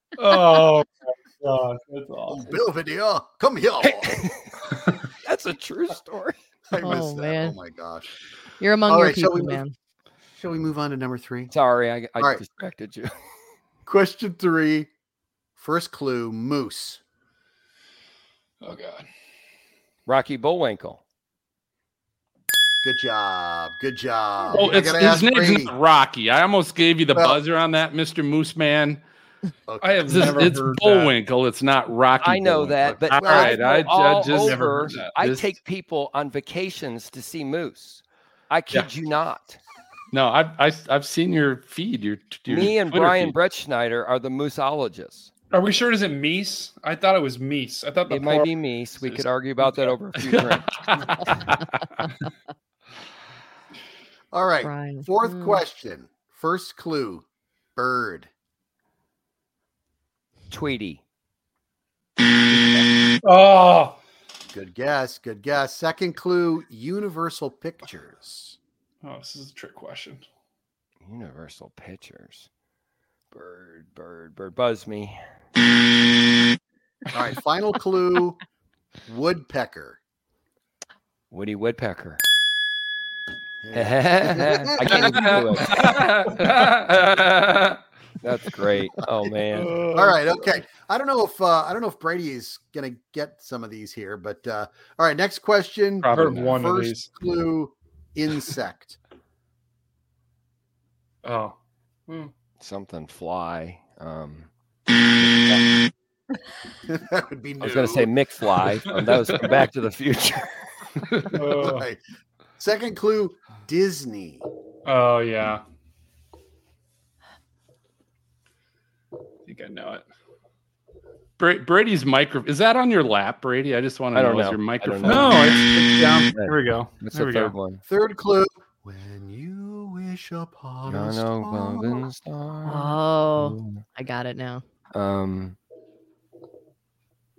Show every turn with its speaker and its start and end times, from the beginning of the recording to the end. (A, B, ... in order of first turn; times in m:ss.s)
0:00.2-0:02.6 A
0:02.3-0:04.2 B
0:03.8-0:04.4 C
0:05.2-0:06.3 C
0:06.7-0:08.1 B
0:06.8-0:07.6 D
0:08.6-0:09.7 D
0:08.9-0:09.6 B
0:10.3-0:11.5 B
0:11.5-0:13.1 C
0:13.8-0:14.9 B
0:15.6-0:17.0 B
0:18.6-0:19.1 A
0:20.1-0:21.0 C
0:22.8-0:25.7 B
0:24.5-0:29.0 E
0:27.1-0:27.4 B
0:29.7-0:30.5 B
0:29.8-0:31.2 A
0:30.0-0:35.5 E
0:32.2-0:39.6 C
0:32.8-0:33.6 B
0:34.3-0:35.1 A
0:40.1-0:43.3 E
0:42.5-0:45.3 C
0:45.5-0:48.5 A
0:48.1-0:50.7 C
0:49.0-0:49.9 A
0:50.3-0:51.7 E
0:54.3-0:57.2 B
0:54.6-0:55.6 D
0:57.8-0:58.3 B
1:00.5-1:01.0 C
1:03.2-1:04.0 A
1:04.5-1:08.6 B
1:09.0-1:10.2 A
1:11.0-1:12.5 C
1:13.3-1:15.2 C
1:17.1-1:18.4 B
1:19.0-1:20.0 B
1:21.3-1:22.2 C
1:23.6-1:25.4 B
1:23.7-1:25.8 C
1:25.0-1:27.8 E
1:25.2-1:25.9 A
1:28.2-1:29.7 C
1:29.5-1:30.2 A
1:29.9-1:39.0 B
1:36.0-1:36.5 E
1:36.1-1:37.1 A
1:41.2-1:41.6 A
1:42.6-1:44.5 C
1:45.2-1:45.6 C
1:46.9-1:48.1 B
1:47.6-1:50.7 C
1:51.3-1:51.8 A
1:51.5-1:52.0 B
1:52.6-1:54.4 B
1:54.8-1:55.6 A
1:59.5-2:00.0 A
2:01.4-2:05.5 E
2:04.1-2:07.8 C
2:05.0-2:07.5 A
2:07.8-2:12.0 B
2:10.9-2:13.8 C
2:12.6-2:14.6 D
2:14.9-2:15.6 C